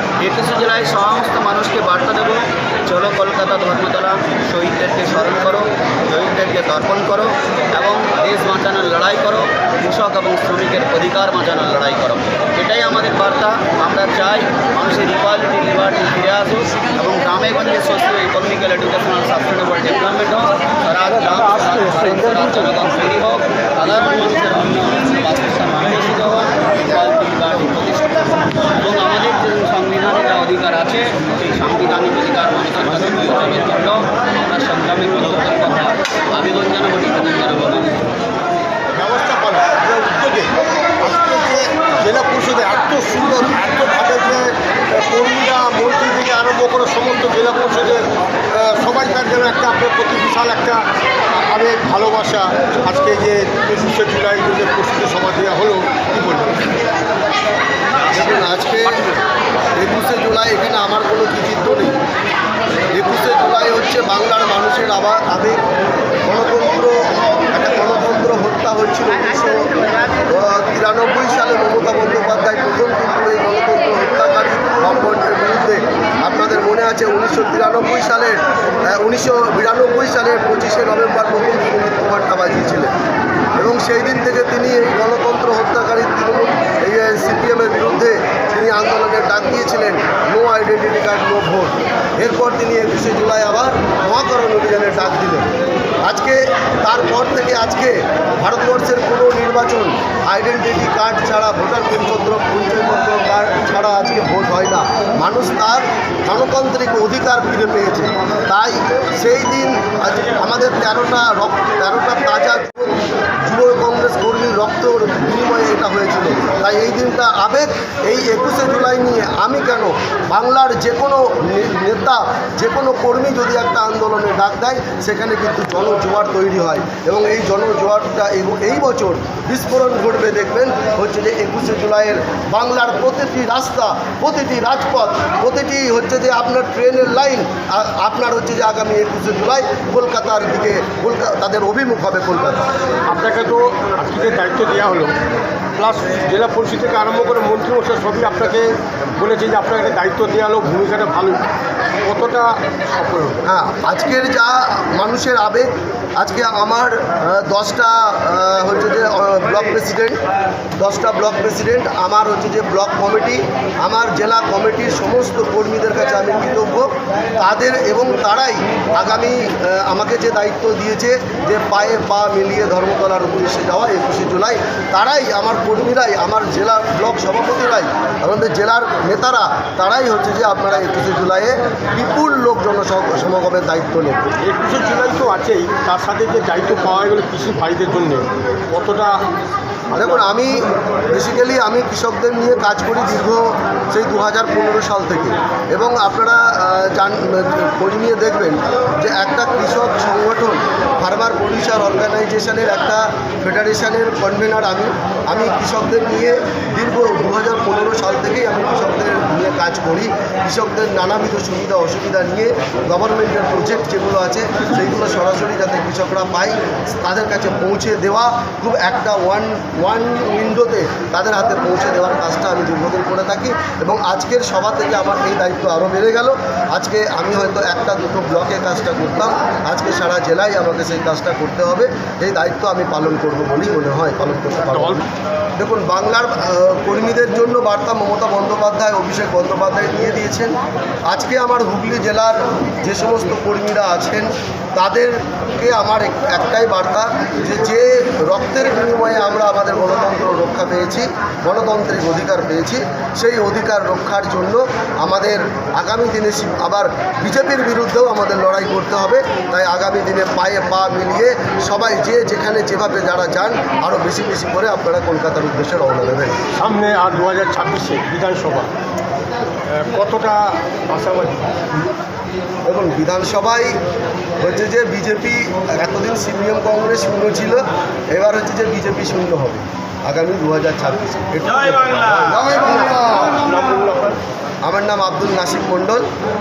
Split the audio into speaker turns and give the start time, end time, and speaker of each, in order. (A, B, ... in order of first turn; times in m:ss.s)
0:00.2-0:38.0 A
0:39.0-0:56.6 B
0:58.1-0:59.1 C
0:59.8-1:02.0 C
1:02.9-1:05.6 C
1:06.3-1:09.7 C
1:10.3-1:22.9 C
1:23.6-1:35.5 C
1:36.0-1:52.9 C
1:53.4-2:22.7 C
2:23.1-2:25.1 B
2:25.8-2:31.4 B
2:32.0-2:33.4 B
2:33.5-2:40.2 C
2:40.8-3:04.2 C
3:04.4-3:09.1 B
3:09.9-3:55.0 C
3:54.7-3:55.0 B
3:55.6-4:26.4 C
4:26.6-4:28.7 B
4:29.7-4:31.5 B
4:32.6-4:33.8 C
4:34.4-4:43.4 C
4:43.4-4:44.2 B
4:44.6-4:46.1 C